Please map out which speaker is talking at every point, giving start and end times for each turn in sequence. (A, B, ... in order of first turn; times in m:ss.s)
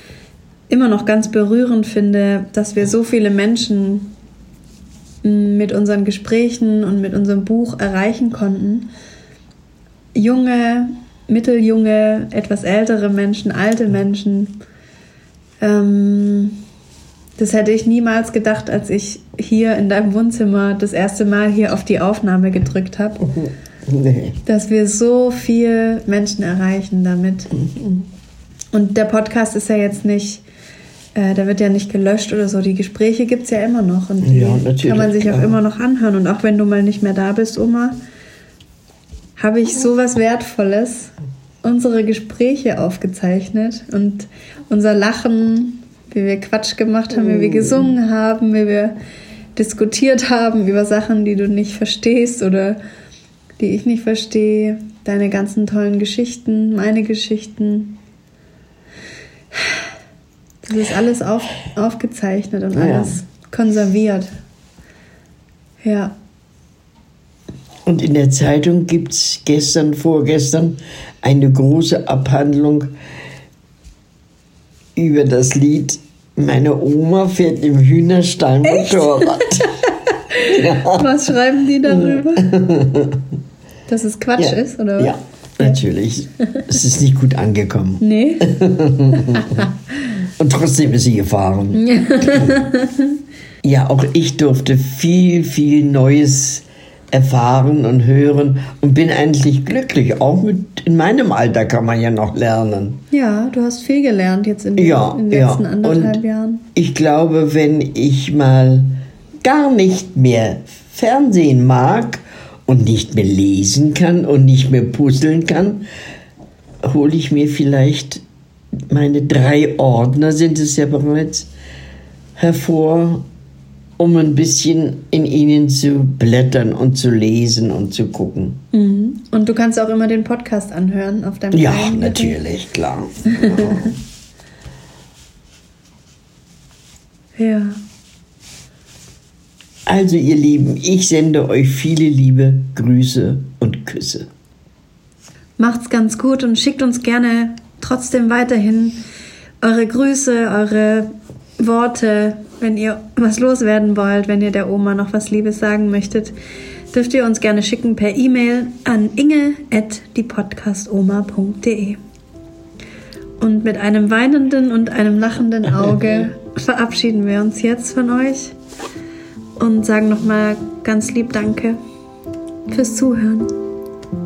0:00.7-0:04.1 A
0:05.2-0:08.9 A
0:10.2-0:14.6 A
0:15.6-0:16.6 A
0:17.4-0:23.4 A
0:23.9-0:24.4 B
0:24.5-0:27.6 A
0:27.7-0:28.0 B
0:28.7-0:30.4 A
0:31.2-0:38.0 A
0:34.2-0:35.6 B
0:39.4-0:49.0 A
0:47.3-0:47.9 B
0:49.6-0:52.8 A
0:53.6-0:58.0 A
0:59.5-0:59.8 A
1:00.6-1:04.3 A
1:02.8-1:03.2 B
1:05.8-1:06.2 A
1:07.9-1:12.9 B
1:15.0-1:19.7 B
1:18.6-1:22.6 A
1:20.4-1:21.2 B
1:21.9-1:23.2 B
1:23.9-1:25.8 A
1:24.4-1:32.6 B
1:28.0-1:28.6 A
1:29.3-1:29.6 A
1:31.7-1:33.2 A
1:33.6-1:43.0 B
1:43.1-1:46.6 A
1:44.8-1:46.2 B
1:46.8-1:55.8 B
1:56.8-1:58.2 B
1:58.9-2:01.5 B
2:02.4-2:03.2 B
2:04.0-2:08.6 B
2:08.7-2:12.4 A
2:11.5-2:14.0 B
2:13.3-2:13.9 A
2:17.4-2:17.8 A
2:19.9-2:24.3 B
2:25.6-2:29.0 A
2:29.6-2:36.4 A
2:36.9-2:42.0 A
2:43.4-2:48.6 A
2:49.6-2:51.8 A
2:52.7-2:53.5 A